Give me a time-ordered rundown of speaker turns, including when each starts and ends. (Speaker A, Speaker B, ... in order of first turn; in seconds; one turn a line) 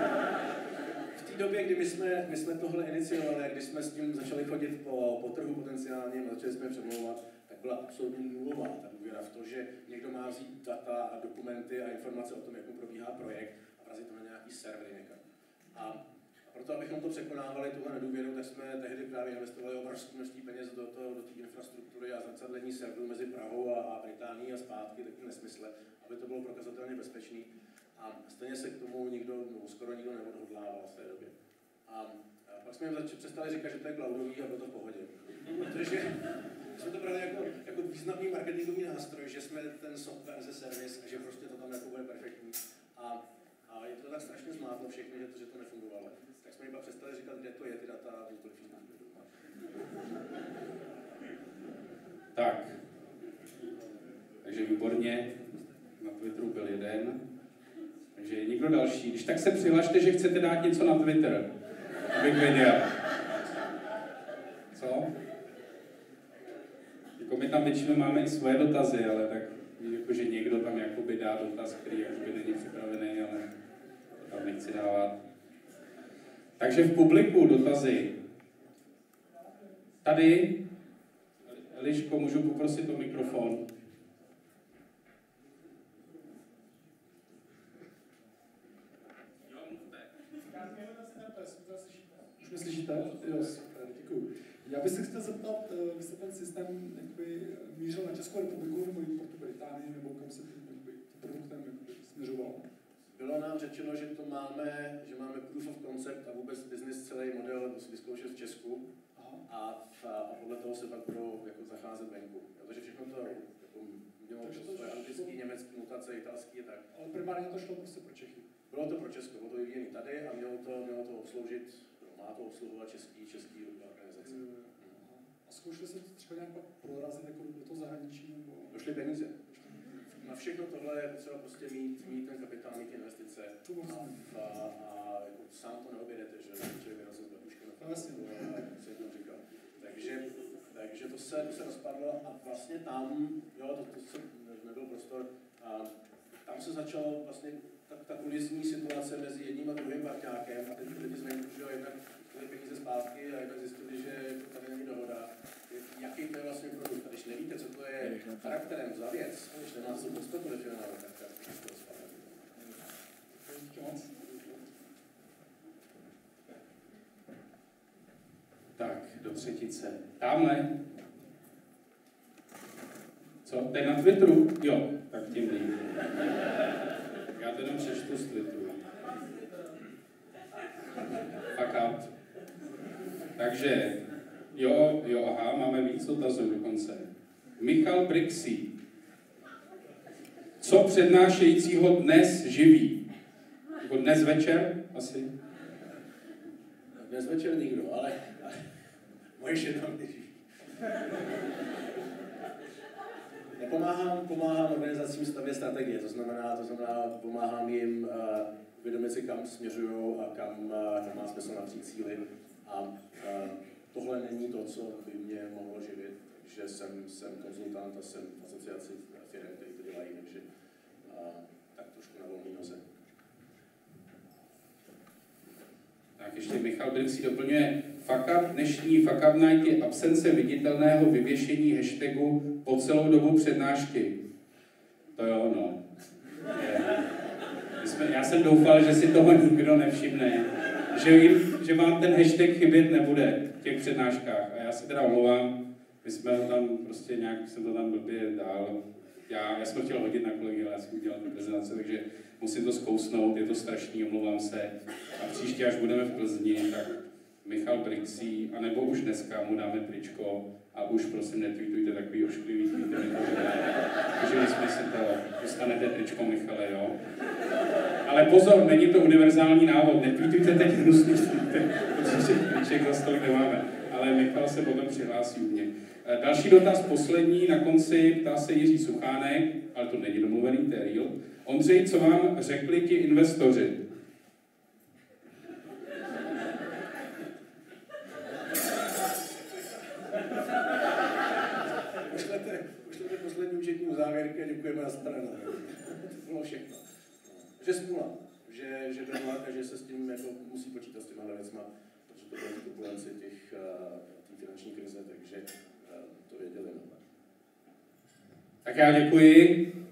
Speaker A: 1.1-31.3
Speaker A: 31.9-49.3
Speaker B: 52.4-52.7
Speaker B: 54.4-55.4
Speaker B: 56.0-57.2
Speaker B: 58.1-61.5
Speaker B: 62.1-62.9
Speaker B: 64.7-65.1
Speaker B: 67.2-73.4
Speaker B: 74.2-75.2
Speaker B: 76.6-78.1
Speaker B: 80.0-80.6
Speaker B: 81.5-83.6
Speaker B: 89.5-90.0
Speaker C: 90.4-102.6
Speaker A: 103.1-108.9
Speaker C: 109.1-109.4
Speaker A: 109.5-116.9
Speaker C: 114.4-115.3
Speaker C: 116.9-118.5
Speaker A: 118.7-125.0
Speaker C: 124.2-128.8
Speaker A: 128.7-129.4
Speaker C: 129.5-130.0
Speaker A: 130.2-145.9
Speaker C: 133.6-134.4
Speaker C: 137.8-138.6
Speaker A: 146.4-162.5
Speaker C: 163.3-164.7
Speaker B: 168.8-170.7
Speaker B: 173.4-176.1
Speaker B: 177.3-178.8
Speaker B: 181.5-182.1
Speaker B: 183.3-184.0
Speaker B: 184.5-188.7
Speaker B: 190.6-193.0
Speaker B: 193.8-195.3
Speaker A: 196.9-198.7
Speaker A: 199.4-200.4
Speaker A: 203.6-220.4
Speaker A: 221.0-222.8
Speaker B: 226.2-234.2
Speaker B: 235.2-235.8
Speaker B: 236.5-237.1
Speaker B: 237.8-267.0
Speaker B: 268.0-283.8
Speaker A: 289.2-290.4
Speaker A: 292.0-307.0
Speaker B: 308.6-309.6